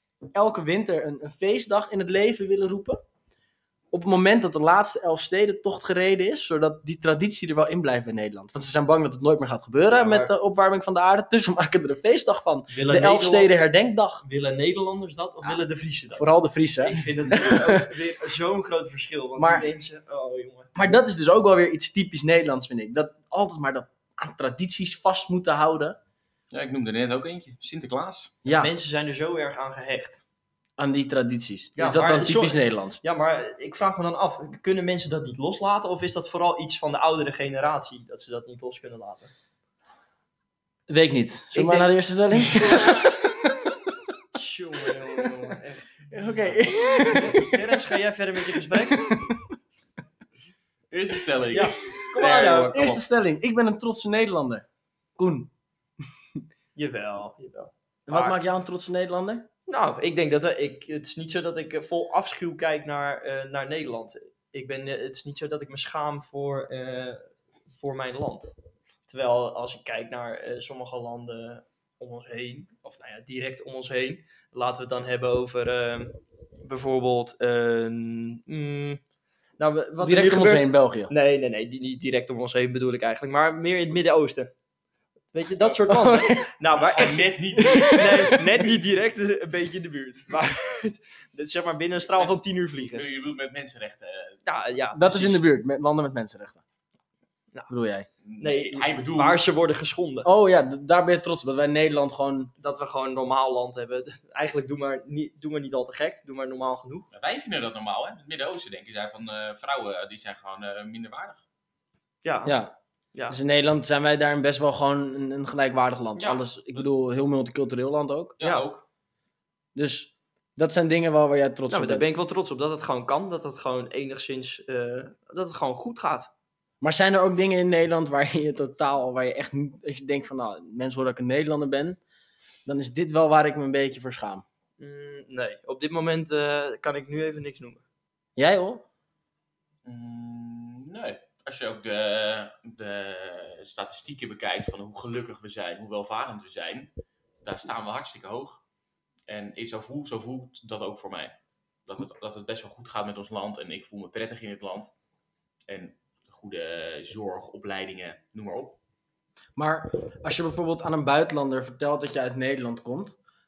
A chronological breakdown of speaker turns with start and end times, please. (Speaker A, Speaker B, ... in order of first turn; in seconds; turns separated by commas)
Speaker A: 0.3-3.0, Speaker A: 3.9-14.2, Speaker B: 9.9-10.3, Speaker B: 12.7-13.5, Speaker B: 14.2-20.8, Speaker A: 16.1-18.0, Speaker A: 19.4-19.7, Speaker A: 20.8-26.0, Speaker C: 26.5-28.4, Speaker A: 28.4-28.7, Speaker B: 28.5-30.2, Speaker A: 30.8-33.0, Speaker B: 31.8-39.3, Speaker A: 40.9-43.8, Speaker B: 41.5-41.9, Speaker B: 44.3-49.1, Speaker A: 44.9-45.3, Speaker A: 46.1-47.9, Speaker A: 48.5-49.5, Speaker C: 50.9-53.0, Speaker B: 51.5-52.8, Speaker A: 52.2-54.6, Speaker A: 55.2-55.5, Speaker B: 56.8-57.7, Speaker A: 58.1-59.5, Speaker B: 59.7-68.5, Speaker B: 69.1-79.0, Speaker B: 79.6-84.5, Speaker A: 80.0-81.1, Speaker B: 85.3-93.0, Speaker A: 85.6-86.5, Speaker C: 86.8-88.5, Speaker A: 87.0-88.5, Speaker C: 92.8-94.4, Speaker B: 94.5-95.4, Speaker A: 94.9-96.6, Speaker A: 97.7-98.1, Speaker C: 98.2-99.5, Speaker B: 98.4-100.3, Speaker A: 100.2-102.5, Speaker B: 102.6-107.1, Speaker C: 107.1-111.4, Speaker B: 112.2-112.6, Speaker A: 112.5-112.7, Speaker A: 113.3-118.4, Speaker C: 118.4-118.8, Speaker B: 118.4-118.7, Speaker A: 119.8-122.1, Speaker B: 121.7-126.3, Speaker A: 126.8-132.0, Speaker A: 132.7-134.4, Speaker B: 134.8-137.8, Speaker A: 138.4-138.8, Speaker C: 139.8-146.9, Speaker C: 147.4-148.6, Speaker C: 149.3-154.9, Speaker C: 155.7-158.8, Speaker A: 159.6-163.2